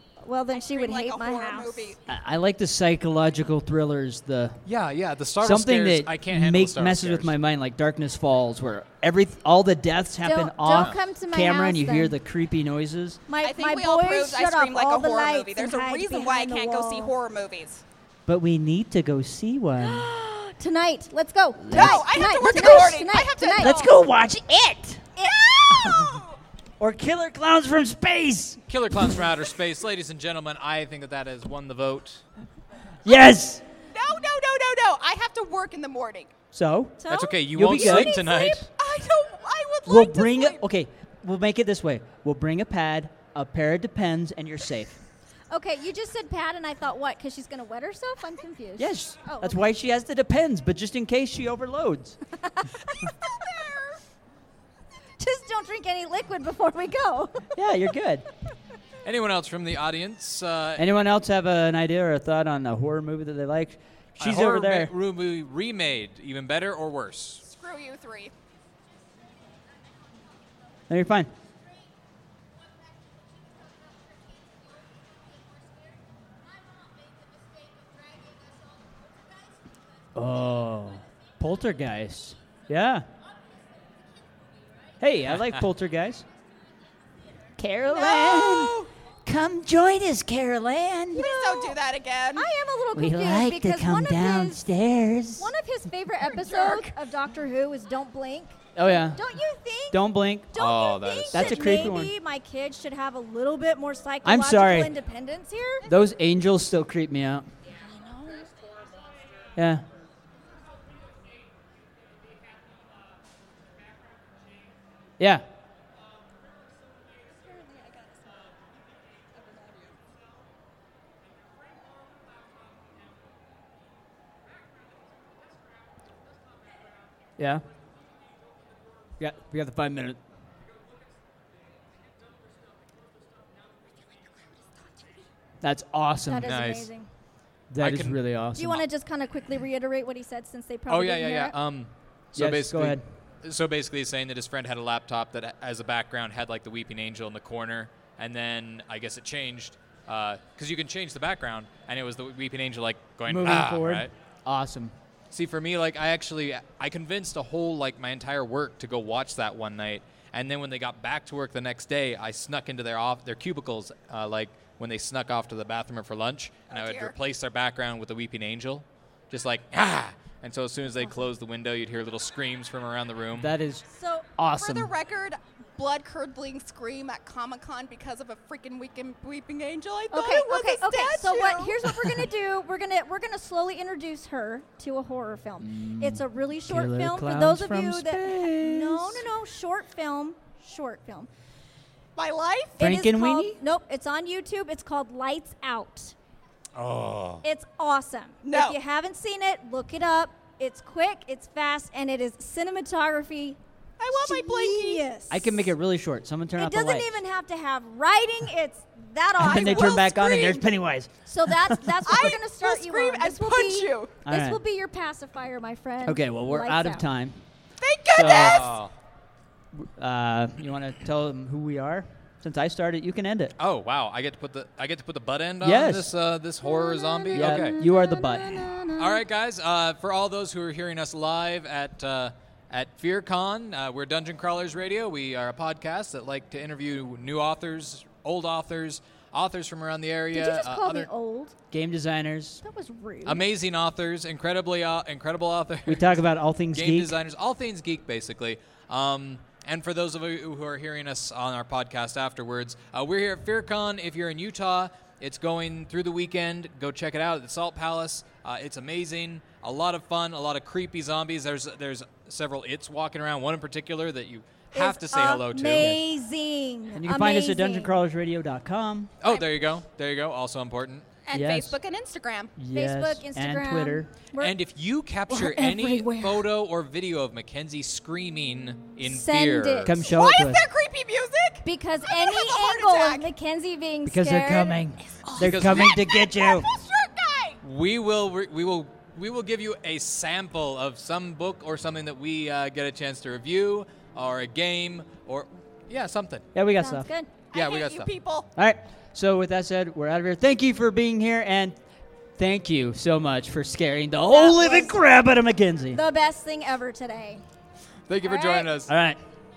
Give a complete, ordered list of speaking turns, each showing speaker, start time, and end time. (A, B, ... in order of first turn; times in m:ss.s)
0:00.2-0:01.9 A
0:00.5-0:02.0 B
0:02.1-0:04.6 C
0:04.6-0:07.3 D
0:05.4-0:13.2 C
0:10.2-0:12.1 A
0:10.7-0:11.0 D
0:13.3-0:17.1 A
0:13.4-0:17.8 B
0:18.3-0:20.1 C
0:19.8-0:23.8 A
0:21.6-0:23.0 C
0:21.7-0:23.9 B
0:23.6-0:25.1 C
0:25.2-0:25.5 A
0:25.2-0:26.4 B
0:25.7-0:26.2 C
0:26.8-0:28.6 C
0:28.7-0:32.2 D
0:33.0-0:33.6 C
0:33.9-0:36.3 B
0:36.5-0:37.0 C
0:37.0-0:38.6 A
0:37.1-0:38.7 D
0:37.5-0:38.2 C
0:38.8-0:40.6 B
0:39.8-0:45.0 C
0:45.5-0:49.6 A
0:48.8-0:52.2 C
0:52.4-0:53.0 A
0:53.2-0:54.0 B
0:55.2-0:57.5 A
0:57.5-0:58.2 C
0:59.0-1:00.9 D
1:00.8-1:04.9 C
1:04.2-1:07.4 D
1:07.4-1:08.3 B
1:10.9-1:11.3 C
1:20.1-1:23.0 C
1:25.0-1:26.2 C
1:27.6-1:31.3 C
1:27.9-1:28.9 B
1:31.1-1:31.8 A
1:31.1-1:32.5 B
1:32.4-1:34.6 A
1:32.9-1:35.5 C
1:35.4-1:45.8 A
1:36.4-1:36.9 C
1:36.5-1:36.8 B
1:38.8-1:39.2 C
1:39.9-1:40.6 C
1:40.5-1:42.0 D
1:41.3-1:42.1 C
1:44.2-1:44.9 C
1:45.9-1:47.4 C
1:47.8-1:48.5 A
1:49.5-1:49.8 C
1:55.2-1:55.4 C
2:07.4-2:07.6 C
2:09.2-2:10.2 C
2:15.6-2:16.5 C
2:16.3-2:17.1 A
2:16.4-2:16.9 D
2:17.7-2:18.8 C
2:17.8-2:18.8 D
2:18.6-2:21.5 A
2:20.9-2:34.1 D
2:22.3-2:23.0 C
2:33.3-2:34.9 C
2:35.3-2:53.5 D
2:46.7-2:47.1 B
2:53.3-2:53.8 C
2:53.9-2:54.3 A
2:54.4-2:54.9 C
2:54.5-3:02.2 B
3:00.1-3:11.3 A
3:05.6-3:09.2 C
3:12.2-3:12.8 B
3:12.8-3:16.1 A
3:12.8-3:13.6 C
3:16.8-3:17.4 D
3:17.4-3:23.6 A
3:18.4-3:18.8 B
3:24.0-3:25.1 B
3:24.1-3:25.7 A
3:25.3-3:27.1 C
3:26.6-3:30.7 A
3:29.4-3:32.0 C
3:29.4-3:30.6 B
3:31.2-3:37.0 A
3:32.0-3:34.1 B
3:34.2-3:34.6 C
3:36.0-3:37.4 C
3:37.8-3:38.8 B
3:38.1-3:38.7 C
3:38.2-3:38.9 D
3:39.7-3:43.5 C
3:43.6-3:47.8 D
3:45.6-3:46.1 C
3:46.6-3:49.2 A
3:47.3-3:48.7 C
3:49.0-4:01.1 D
4:00.3-4:01.5 A
4:01.7-4:02.6 C
4:02.6-4:03.4 A
4:03.2-4:26.0 D
4:05.8-4:07.2 C
4:24.7-4:27.9 A
4:25.7-4:26.0 C
4:26.9-4:29.1 C
4:29.2-4:31.1 D
4:29.2-4:29.5 B
4:31.2-4:32.5 B
4:31.3-4:31.8 C
4:32.6-4:34.1 C
4:32.7-4:34.6 A
4:34.4-4:40.0 D
4:35.3-4:36.5 A
4:39.0-4:40.0 A
4:39.8-4:40.7 C
4:40.0-4:43.3 B
4:41.6-4:44.8 A
4:44.0-4:46.7 C
4:45.2-4:47.6 B
4:45.4-4:46.0 D
4:47.6-4:56.4 D
4:56.5-4:57.1 C
4:56.8-4:57.3 A
4:57.5-4:58.5 B
4:57.5-4:58.1 D
4:58.6-5:01.8 C
5:02.4-5:06.0 C
5:04.3-5:05.0 A
5:05.9-5:07.4 A
5:08.1-5:08.9 D
5:08.2-5:08.7 A
5:08.8-5:09.2 C